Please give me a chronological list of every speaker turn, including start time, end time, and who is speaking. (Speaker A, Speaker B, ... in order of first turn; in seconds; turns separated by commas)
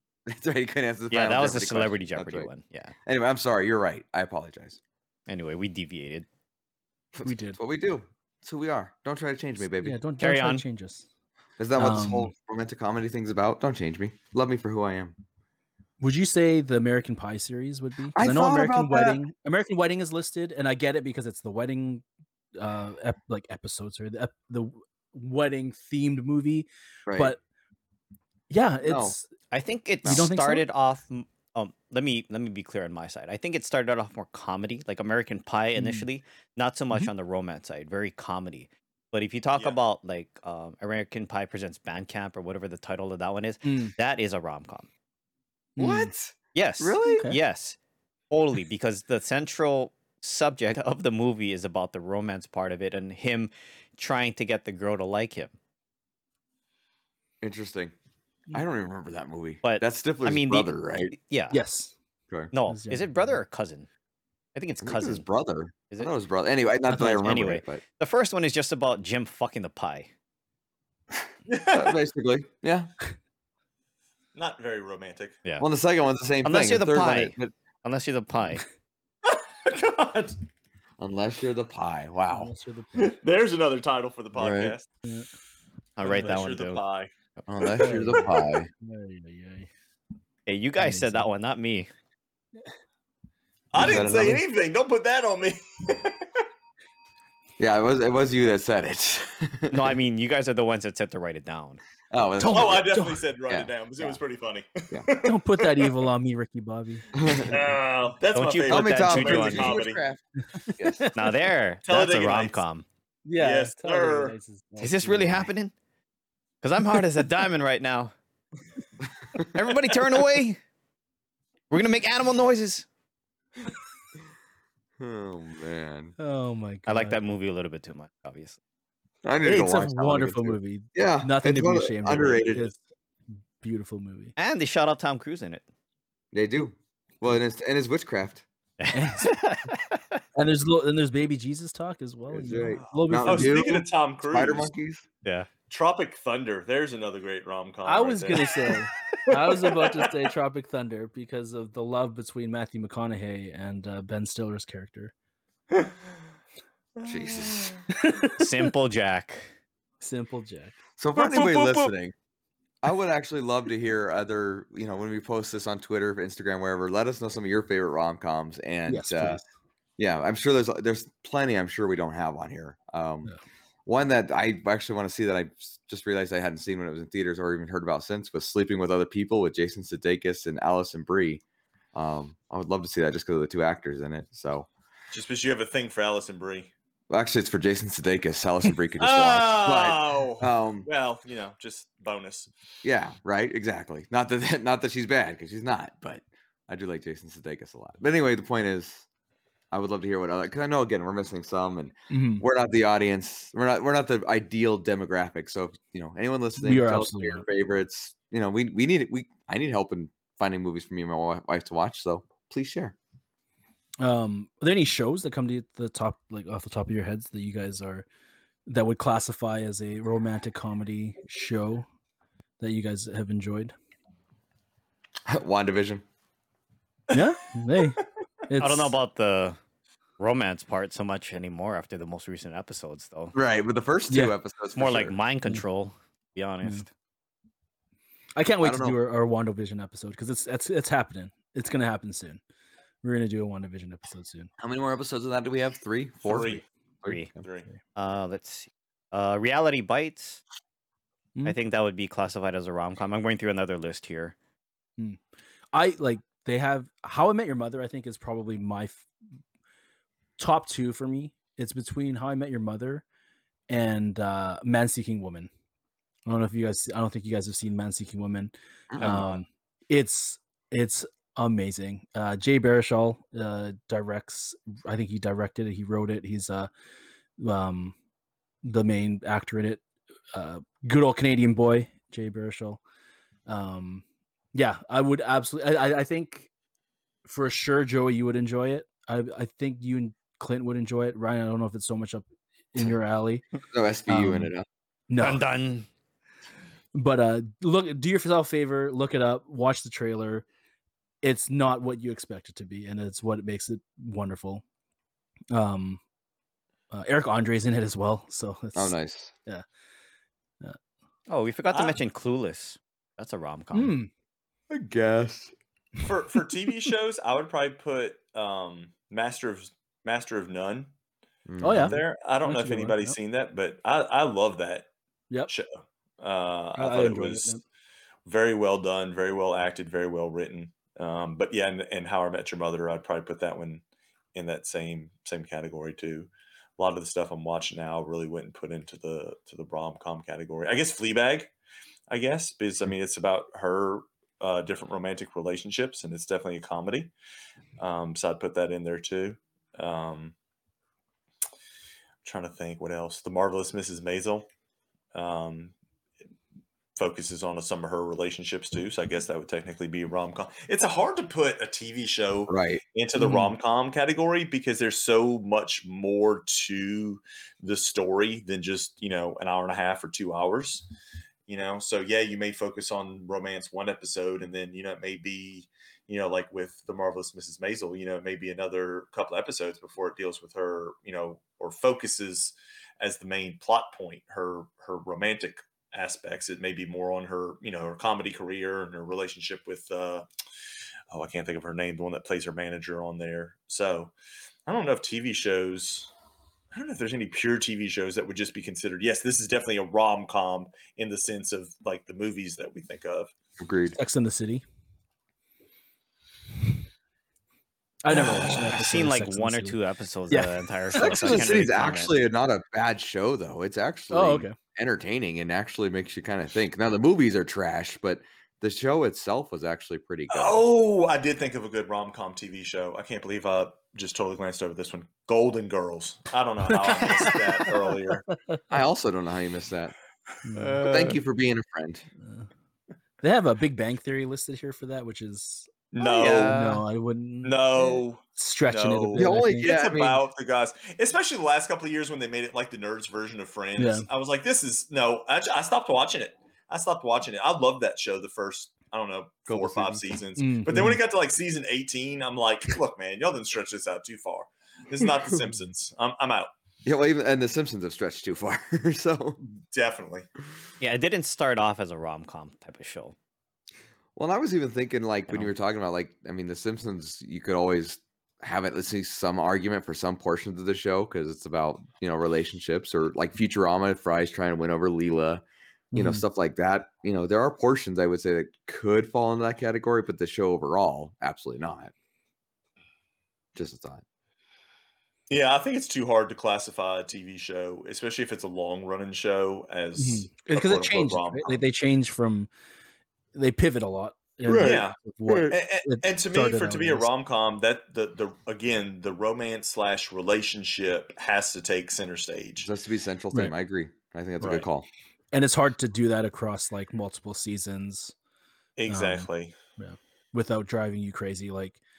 Speaker A: 0.3-2.5, Speaker B: 1.1-2.9, Speaker A: 3.1-4.8, Speaker B: 5.3-6.3, Speaker A: 7.1-10.0, Speaker C: 7.2-7.6, Speaker C: 9.8-11.1, Speaker B: 10.2-10.6, Speaker A: 11.6-15.2, Speaker C: 11.8-12.3, Speaker C: 16.0-22.0, Speaker A: 18.1-19.2, Speaker C: 22.6-27.4, Speaker A: 27.1-27.3, Speaker C: 28.5-29.3, Speaker A: 28.8-29.2, Speaker B: 29.5-44.9, Speaker C: 30.1-30.6, Speaker C: 35.8-36.1, Speaker C: 43.6-43.9, Speaker C: 45.8-46.1, Speaker A: 45.8-47.2, Speaker B: 46.5-47.8, Speaker B: 48.3-55.5, Speaker A: 57.4-57.9, Speaker A: 58.5-61.1, Speaker B: 59.6-61.6, Speaker C: 61.5-62.0, Speaker B: 62.5-63.9, Speaker C: 62.7-63.4, Speaker B: 64.5-65.2, Speaker A: 64.8-67.8, Speaker B: 66.9-70.1, Speaker D: 71.5-72.0, Speaker A: 71.7-72.9, Speaker D: 74.3-75.4, Speaker A: 75.6-77.5, Speaker B: 76.4-78.6, Speaker D: 79.3-80.4, Speaker A: 81.0-82.5, Speaker C: 82.3-83.2, Speaker D: 83.0-84.9, Speaker A: 84.3-84.8, Speaker B: 86.0-86.8, Speaker D: 86.0-87.1, Speaker A: 87.5-88.7, Speaker C: 87.8-89.7, Speaker B: 90.5-91.9, Speaker C: 90.8-91.3, Speaker D: 93.7-96.4, Speaker A: 93.8-94.4, Speaker C: 93.8-94.4, Speaker A: 97.6-99.9, Speaker B: 99.7-101.8, Speaker A: 102.1-102.9, Speaker C: 102.4-103.2, Speaker D: 102.4-105.9, Speaker C: 105.2-107.1, Speaker A: 107.1-107.5, Speaker D: 107.3-110.0, Speaker B: 108.3-109.9, Speaker A: 108.7-111.1, Speaker C: 110.6-111.2, Speaker B: 111.1-112.8, Speaker D: 111.9-112.6, Speaker C: 113.3-115.5, Speaker D: 113.4-114.3, Speaker B: 114.8-115.7, Speaker B: 116.6-118.1, Speaker B: 119.4-120.6, Speaker B: 121.7-122.9, Speaker A: 125.0-126.1, Speaker C: 126.2-127.2, Speaker B: 126.9-128.6, Speaker A: 129.2-132.7, Speaker C: 129.4-132.8, Speaker C: 133.6-134.3, Speaker B: 134.4-135.6, Speaker A: 136.3-138.4, Speaker B: 138.8-140.2, Speaker C: 138.9-139.4, Speaker C: 140.3-143.7, Speaker A: 142.3-145.0, Speaker D: 142.9-144.7, Speaker B: 145.2-145.5, Speaker D: 145.7-148.7, Speaker C: 147.8-155.1, Speaker D: 149.3-150.2, Speaker A: 157.0-157.8, Speaker D: 157.1-157.8, Speaker C: 157.9-158.7, Speaker B: 158.3-159.5, Speaker C: 160.0-160.8, Speaker A: 161.0-162.1, Speaker A: 162.8-169.4, Speaker C: 168.9-169.4, Speaker A: 170.0-173.3, Speaker A: 173.9-181.4, Speaker A: 181.9-184.7, Speaker D: 185.1-186.7, Speaker A: 187.1-190.9, Speaker D: 189.0-192.5, Speaker A: 192.8-199.1, Speaker A: 199.7-213.0, Speaker C: 202.1-202.4, Speaker C: 206.6-207.4, Speaker C: 214.0-218.1, Speaker C: 218.7-221.9, Speaker C: 222.6-223.7, Speaker A: 225.3-226.0, Speaker C: 227.1-228.9, Speaker B: 228.6-229.6, Speaker B: 230.2-233.3, Speaker A: 233.3-235.2, Speaker C: 234.1-234.3, Speaker B: 234.8-236.9, Speaker C: 238.4-242.4, Speaker A: 238.6-239.0, Speaker C: 243.0-244.5, Speaker A: 244.6-247.4, Speaker D: 246.3-246.6, Speaker D: 247.4-247.7, Speaker B: 248.0-250.4, Speaker B: 251.4-254.3, Speaker C: 255.7-259.1, Speaker C: 260.4-263.0, Speaker C: 263.7-265.5, Speaker C: 266.3-276.7, Speaker A: 268.9-269.3, Speaker B: 269.0-269.3, Speaker C: 277.4-277.9, Speaker C: 278.6-279.8, Speaker C: 280.3-282.8, Speaker C: 283.5-286.5, Speaker C: 287.3-293.4, Speaker A: 293.7-294.7, Speaker C: 294.1-294.5, Speaker C: 295.1-295.4, Speaker B: 295.2-295.9, Speaker C: 296.9-300.5, Speaker C: 301.2-304.6, Speaker C: 305.5-306.0, Speaker C: 306.9-308.9, Speaker A: 308.8-309.3, Speaker B: 311.3-313.9, Speaker D: 311.7-312.0, Speaker C: 313.7-314.1, Speaker A: 314.7-315.5, Speaker D: 316.0-320.9, Speaker A: 321.5-322.0, Speaker C: 321.6-323.2, Speaker D: 321.7-324.9, Speaker D: 325.5-327.6, Speaker C: 326.8-327.6, Speaker D: 328.2-333.8, Speaker D: 334.4-341.5, Speaker D: 342.1-347.1, Speaker D: 347.8-350.4, Speaker D: 352.2-354.5, Speaker D: 355.1-355.7, Speaker D: 357.0-370.9, Speaker A: 362.5-362.8, Speaker C: 363.2-363.5, Speaker D: 371.5-390.3, Speaker D: 391.1-394.1, Speaker D: 394.7-396.1, Speaker D: 396.7-403.3, Speaker A: 403.6-404.0, Speaker C: 403.9-404.6, Speaker C: 408.0-409.8, Speaker D: 408.2-408.6, Speaker B: 408.2-412.1, Speaker C: 410.3-411.4, Speaker A: 410.9-420.6, Speaker C: 414.1-414.6, Speaker D: 420.3-428.2, Speaker C: 426.8-427.4, Speaker C: 428.3-428.6, Speaker A: 428.7-429.9, Speaker C: 430.4-430.9, Speaker D: 430.6-431.2, Speaker A: 430.8-432.1, Speaker C: 432.2-432.5, Speaker C: 433.2-435.7, Speaker D: 435.9-436.6, Speaker A: 436.0-436.8, Speaker C: 436.3-439.7, Speaker D: 437.4-456.5, Speaker A: 439.1-440.2, Speaker C: 443.8-444.1, Speaker A: 449.5-450.0, Speaker C: 450.4-451.0, Speaker A: 456.9-459.4, Speaker D: 459.7-460.3, Speaker B: 460.8-463.1, Speaker A: 464.2-475.4, Speaker C: 475.9-476.2, Speaker A: 475.9-481.9, Speaker A: 483.6-484.0, Speaker D: 485.3-491.6, Speaker C: 490.0-492.5, Speaker C: 493.3-497.1, Speaker A: 494.5-495.4, Speaker D: 494.5-502.7, Speaker A: 502.6-504.9, Speaker D: 504.4-504.7, Speaker C: 505.3-508.1, Speaker D: 508.8-509.6, Speaker C: 508.9-511.8